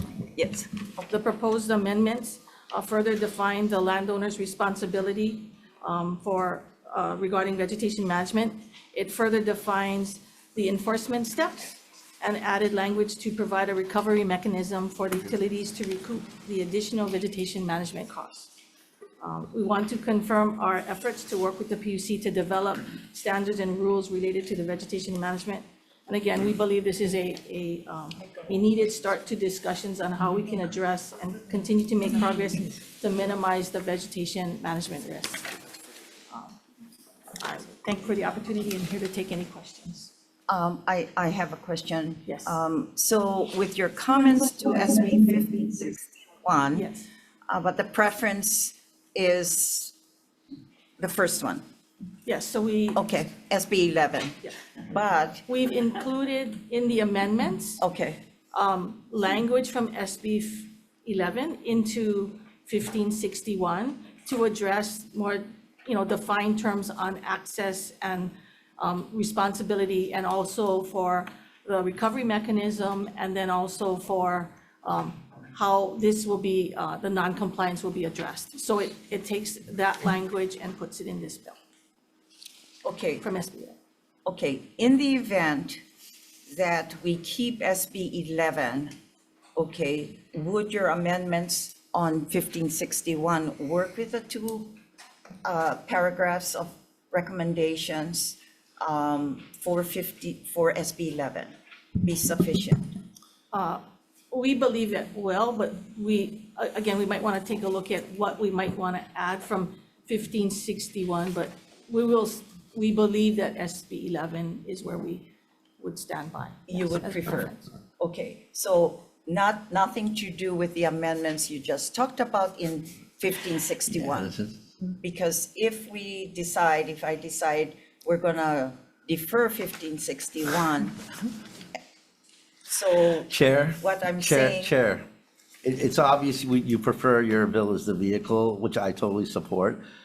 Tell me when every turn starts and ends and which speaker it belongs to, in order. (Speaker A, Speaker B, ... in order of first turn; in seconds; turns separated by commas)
Speaker A: 0.3-1.1, Speaker B: 1.1-18.5, Speaker B: 19.2-35.5, Speaker B: 36.3-36.6, Speaker B: 37.4-40.1, Speaker A: 40.5-46.9, Speaker B: 42.3-42.6, Speaker B: 46.8-47.1, Speaker A: 47.5-49.9, Speaker A: 51.0-51.6, Speaker B: 52.2-53.0, Speaker A: 53.0-55.4, Speaker B: 55.5-57.8, Speaker A: 57.8-58.2, Speaker B: 58.5-81.6, Speaker A: 82.8-83.2, Speaker B: 83.2-83.8, Speaker A: 84.3-85.8, Speaker A: 86.5-88.9, Speaker A: 89.6-94.8, Speaker A: 95.4-103.0, Speaker B: 103.5-117.7, Speaker A: 116.7-124.3, Speaker C: 124.1-124.6, Speaker A: 125.0-131.1, Speaker A: 132.7-134.7, Speaker C: 133.3-135.1, Speaker C: 135.6-139.8